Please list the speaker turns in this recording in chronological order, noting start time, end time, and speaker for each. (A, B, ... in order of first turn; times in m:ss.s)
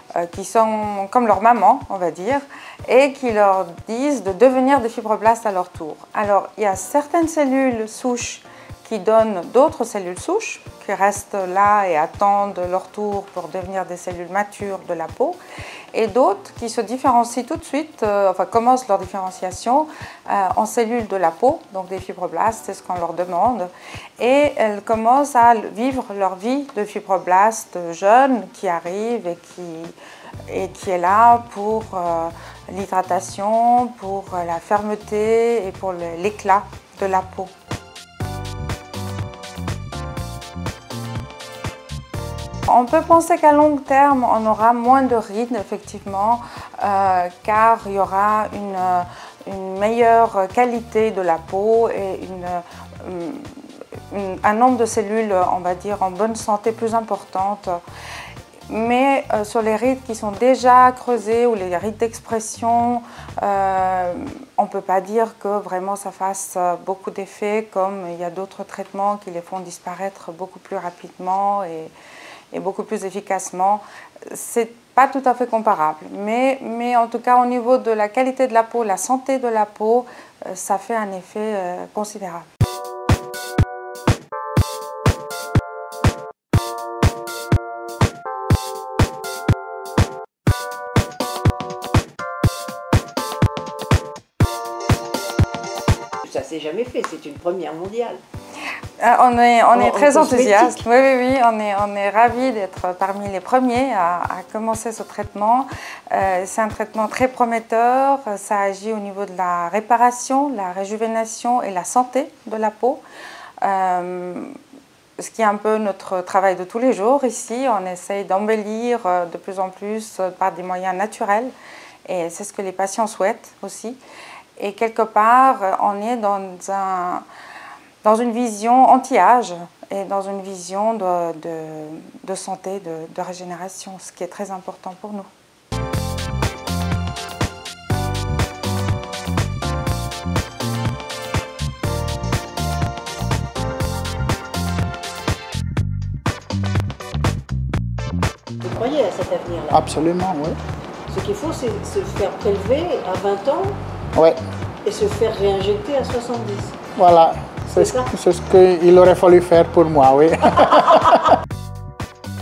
0:00.2-0:15.4 A
0:15.9-0:30.0 A
0:30.5-0:37.5 A
0:42.7-0:53.5 A
0:54.1-0:57.8 A
0:58.7-1:11.9 A
1:12.5-1:22.5 A
1:36.3-1:38.2 B
1:39.0-1:53.0 A
1:39.7-1:40.8 B
1:53.6-1:54.6 A
1:55.2-2:01.5 A
2:02.1-2:04.0 A
2:04.6-2:07.2 A
2:08.0-2:15.3 A
2:28.6-2:29.8 B
2:29.7-2:30.6 C
2:31.1-2:33.8 B
2:34.8-2:36.7 B
2:37.0-2:41.2 C
2:37.7-2:38.1 B